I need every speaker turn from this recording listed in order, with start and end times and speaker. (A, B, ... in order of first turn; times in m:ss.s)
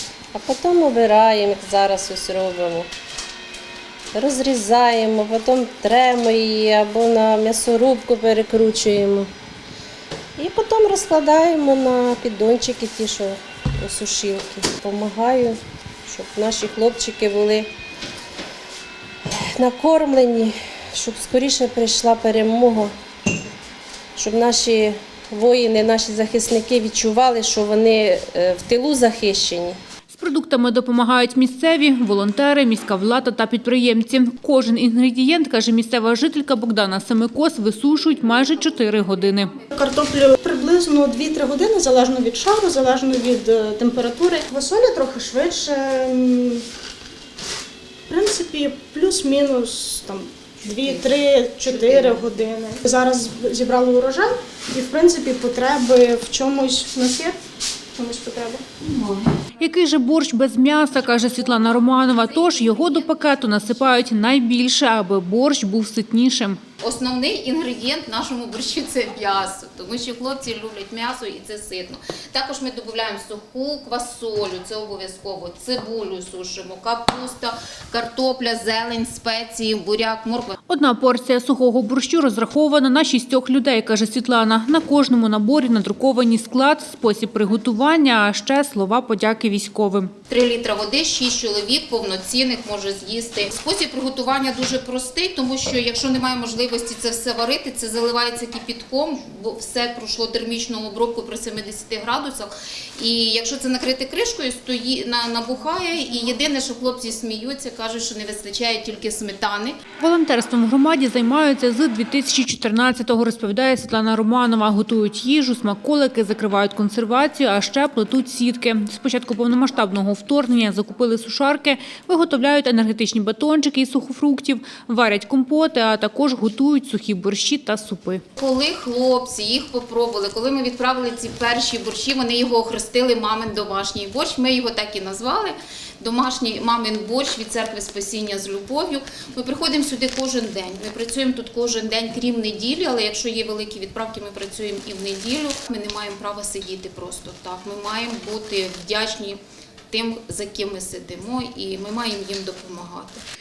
0:00.3-0:02.9 A
0:04.1-0:09.3 A
0:10.4-0:17.7 A
0:19.3-0:22.9 A
0:24.2-0:29.8 A
0:30.1-0:39.5 B
0:39.7-0:46.6 C
0:48.1-0:57.4 C
0:58.0-0:58.7 C
0:58.8-0:59.3 D
0:59.6-1:06.6 B
1:02.4-1:03.5 D
1:06.8-1:20.6 D
1:20.7-1:30.1 B
1:30.3-1:49.8 D
1:50.0-2:08.2 B
2:08.4-2:29.4 D
2:29.9-2:33.2 D